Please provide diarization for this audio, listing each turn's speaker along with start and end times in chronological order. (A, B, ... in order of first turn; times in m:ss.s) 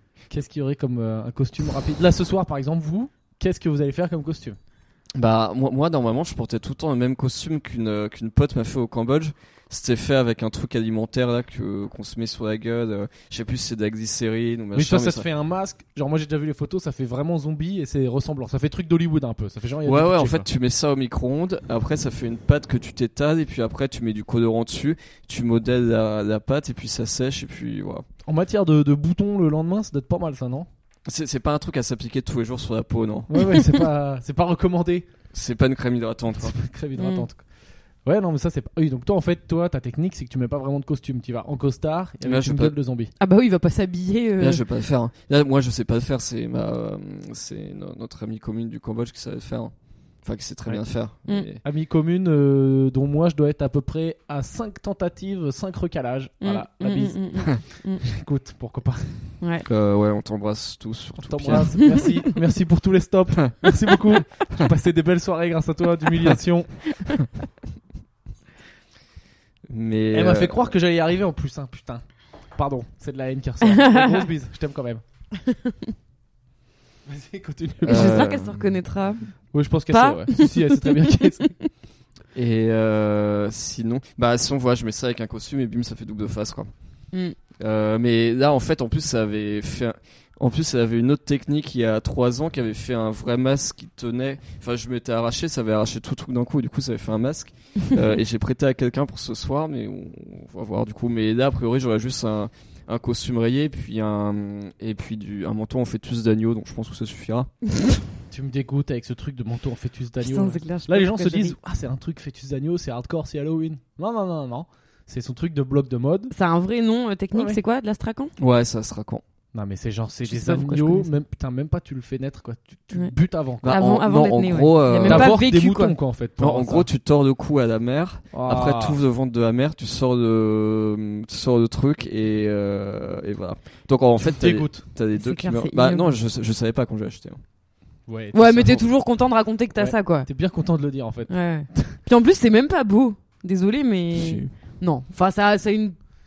0:00.3-0:04.6 A
0:05.2-0:15.3 B
0:14.7-0:20.5 A
0:19.8-0:28.1 B
0:28.3-0:30.7 A
0:31.1-0:33.3 B
0:33.3-0:35.1 A
0:35.3-0:36.6 B
0:36.4-0:37.4 A
0:37.0-0:37.3 C
0:38.0-0:43.1 A
0:42.2-0:42.7 B
0:43.2-0:44.6 C
0:44.4-0:51.6 B
0:51.6-0:57.3 A
0:56.4-0:58.0 C
0:58.0-0:59.3 A
0:59.4-0:59.7 C
0:59.6-1:01.8 B
1:01.2-1:06.8 A
1:01.5-1:02.2 C
1:09.7-1:10.7 B
1:10.1-1:15.0 A
1:13.6-1:14.3 C
1:15.4-1:15.7 C
1:17.1-1:18.3 A
1:17.8-1:18.6 B
1:17.9-1:19.3 C
1:19.5-1:21.5 A
1:19.9-1:21.7 C
1:22.4-1:26.7 B
1:27.6-1:47.5 B
1:48.3-1:56.3 A
1:50.2-1:51.6 C
1:56.3-1:58.3 C
1:58.4-1:59.2 B
1:59.5-2:03.8 A
2:00.3-2:01.1 C
2:03.6-2:05.4 B
2:03.6-2:06.0 C
2:05.0-2:06.9 A
2:06.4-2:17.4 B
2:08.3-2:09.0 A
2:14.3-2:14.8 A
2:15.2-2:16.2 C
2:18.1-2:18.8 A
2:18.3-2:20.3 C
2:19.8-2:22.0 A
2:21.3-2:26.0 C
2:24.1-2:24.5 B